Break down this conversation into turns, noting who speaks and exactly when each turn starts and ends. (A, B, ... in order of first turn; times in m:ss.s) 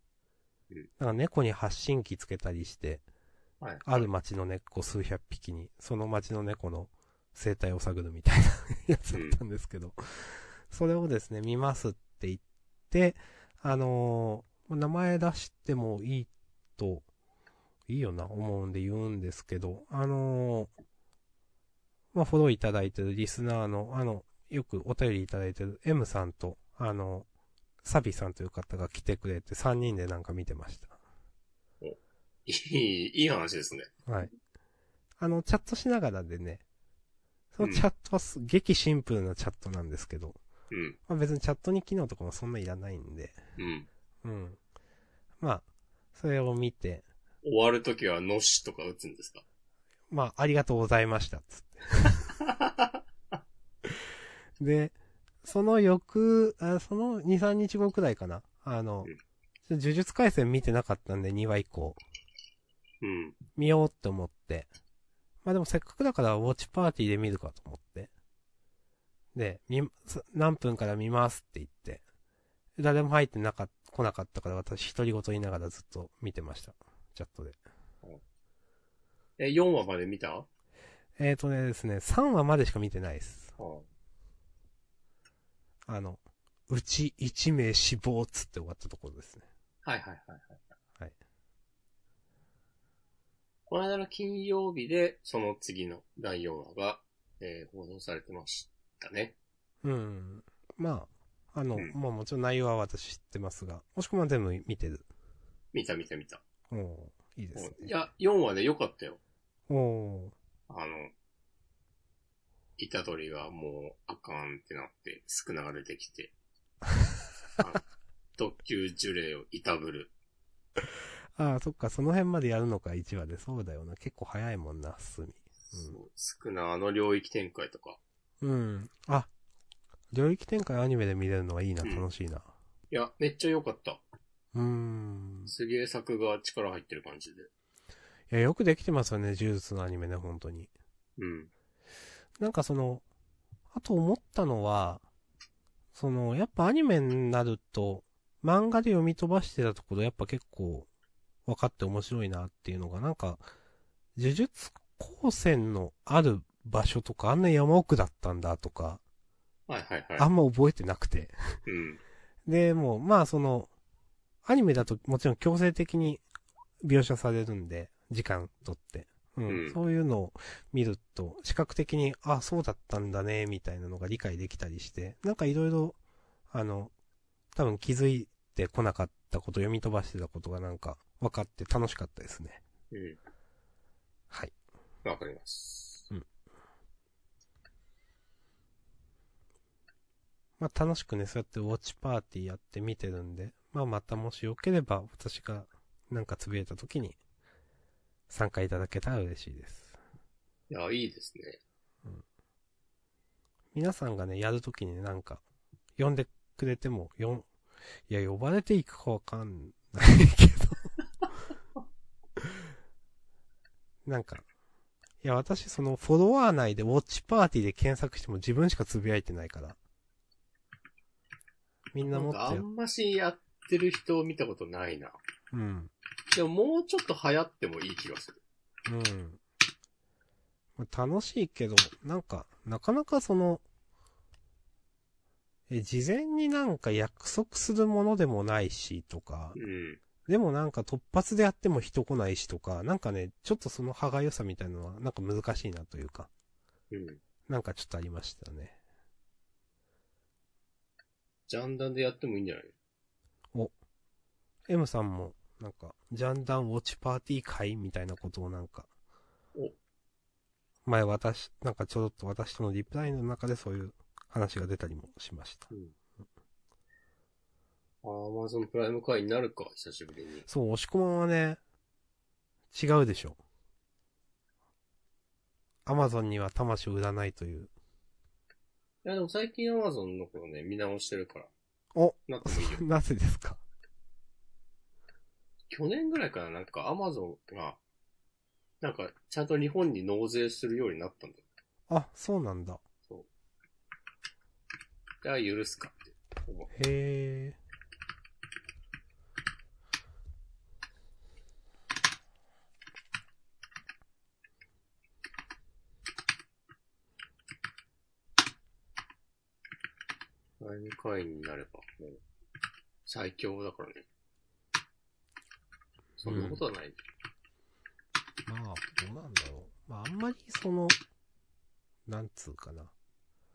0:01.0-0:03.0 A
0:03.6-0:04.1 B
0:03.8-0:17.0 A
0:09.1-0:09.4 B
0:17.9-0:20.7 A
0:22.1-0:27.3 A
0:27.8-0:31.0 A
0:31.8-0:33.9 B
0:35.2-0:36.6 A
0:37.5-0:40.4 A
0:40.7-0:41.0 B
0:41.1-0:43.4 A
0:43.6-0:43.9 B
0:44.2-0:44.6 A
0:45.4-0:47.0 A
0:47.4-0:49.4 B
0:50.1-0:52.2 A
0:52.3-0:53.0 B
0:54.6-0:59.1 A
0:59.7-1:02.0 A
1:03.0-1:03.4 B
1:03.5-1:04.7 A
1:05.4-1:08.1 A
1:09.3-1:12.0 A
1:12.8-1:17.6 A
1:19.4-1:20.5 B
1:21.2-1:23.5 A
1:23.6-1:23.9 B
1:25.8-1:29.4 A
1:29.8-1:30.6 B
1:33.7-1:39.3 B
1:39.8-1:45.0 A
1:45.7-1:46.4 B
1:46.7-1:47.9 A
1:47.5-1:49.2 B
1:49.7-1:50.3 A
1:50.7-1:51.1 B
1:52.8-1:56.3 B
1:57.6-1:57.8 B
1:58.4-2:00.1 B
2:01.4-2:06.0 A
2:05.7-2:08.0 B
2:08.4-2:09.3 A
2:10.1-2:12.5 A
2:12.9-2:14.0 B
2:14.5-2:15.5 A
2:15.5-2:17.5 B
2:18.3-2:20.7 A
2:21.2-2:21.5 B
2:22.4-2:23.0 A
2:23.7-2:25.0 A
2:25.9-2:30.9 A
2:31.4-2:33.4 A
2:34.2-2:39.0 A
2:39.7-2:40.3 B
2:40.2-2:41.6 A
2:41.6-2:42.0 B
2:42.4-2:43.7 A
2:44.4-2:46.2 A
2:46.8-2:56.0 A
2:49.5-2:49.8 B
2:56.5-2:56.9 A
2:57.5-3:02.6 A
3:02.9-3:03.2 B
3:05.0-3:06.1 B
3:10.6-3:17.2 A
3:18.3-3:20.0 A
3:20.7-3:21.6 B
3:23.7-3:25.4 A
3:26.0-3:27.5 A
3:28.1-3:30.9 A
3:34.0-3:34.4 A
3:35.2-3:39.8 A
3:41.9-3:42.6 A
3:42.0-3:45.2 B
3:45.5-3:45.9 A
3:46.3-3:48.4 B
3:48.8-3:49.4 A
3:50.8-3:53.6 A
3:55.7-3:59.6 A
3:59.5-4:00.0 B
4:00.2-4:06.3 A
4:06.9-4:07.2 B
4:07.5-4:08.8 A
4:11.5-4:12.7 B
4:14.7-4:18.9 A
4:20.8-4:25.7 A
4:28.0-4:30.5 B
4:30.5-4:31.6 A
4:32.7-4:33.4 A
4:35.8-4:37.7 A
4:39.0-4:41.5 B
4:41.9-4:43.6 A
4:42.3-4:42.8 B
4:45.7-4:47.8 B
4:48.8-4:51.4 B
4:51.9-4:52.8 A
4:55.2-4:56.7 B
4:56.7-4:57.6 A
5:10.6-5:12.2 B
5:13.0-5:14.0 B
5:16.2-5:17.0 B
5:16.2-5:16.6 A
5:18.4-5:21.0 A
5:22.0-5:22.9 A